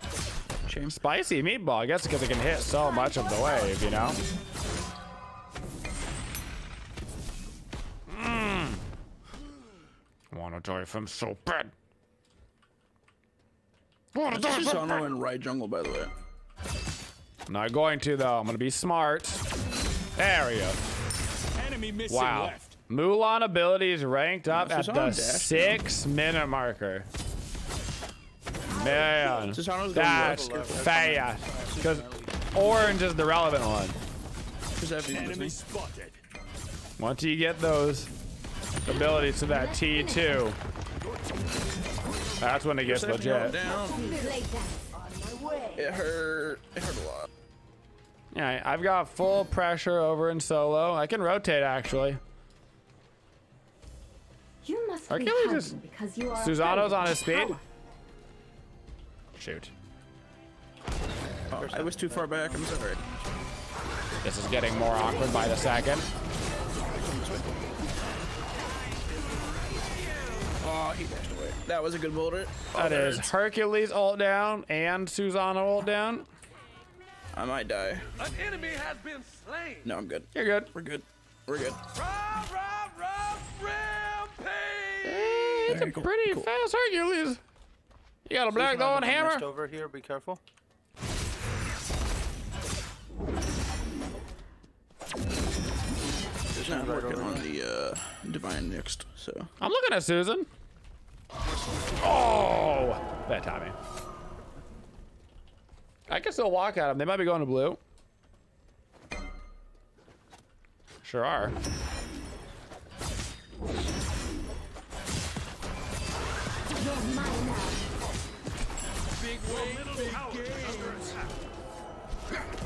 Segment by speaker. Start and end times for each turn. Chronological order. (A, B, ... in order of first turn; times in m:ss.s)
0:00.7-0:01.0 A
0:00.9-0:04.2 B
0:02.6-0:04.0 C
0:08.1-0:08.8 B
0:10.3-0:11.7 B
0:14.1-0:15.2 B
0:14.3-0:16.1 A
0:17.5-0:19.4 B
0:20.2-0:20.8 B
0:21.6-0:22.7 D
0:22.1-0:27.1 B
0:24.5-0:25.8 A
0:28.7-0:34.0 B
0:28.7-0:29.5 C
0:29.5-0:31.1 A
0:30.0-0:32.5 E
0:34.8-0:35.6 A
0:35.1-0:36.2 D
0:37.0-0:38.1 B
0:38.8-0:40.6 B
0:38.9-0:40.4 C
0:41.0-0:43.2 D
0:42.4-0:43.6 B
0:42.8-0:44.1 A
0:43.5-0:44.9 C
0:45.8-0:47.3 A
0:48.3-0:52.2 B
0:54.6-0:57.6 C
0:55.1-0:55.8 B
0:56.4-0:57.6 B
0:59.4-0:59.7 B
1:01.5-1:03.0 A
1:01.5-1:03.5 E
1:04.2-1:06.1 B
1:06.9-1:07.8 A
1:10.6-1:13.3 A
1:12.7-1:16.3 B
1:17.3-1:18.1 A
1:18.2-1:19.9 D
1:19.8-1:21.8 A
1:20.3-1:20.7 B
1:21.9-1:25.6 D
1:25.0-1:27.4 B
1:25.7-1:26.5 A
1:28.3-1:29.5 B
1:28.5-1:30.4 E
1:36.6-1:37.5 E
1:36.6-1:39.5 A
1:39.6-1:40.5 B
1:42.0-1:43.8 B
1:46.1-1:47.8 B
1:51.0-1:51.6 B
1:56.7-1:57.8 C
1:59.3-2:01.3 D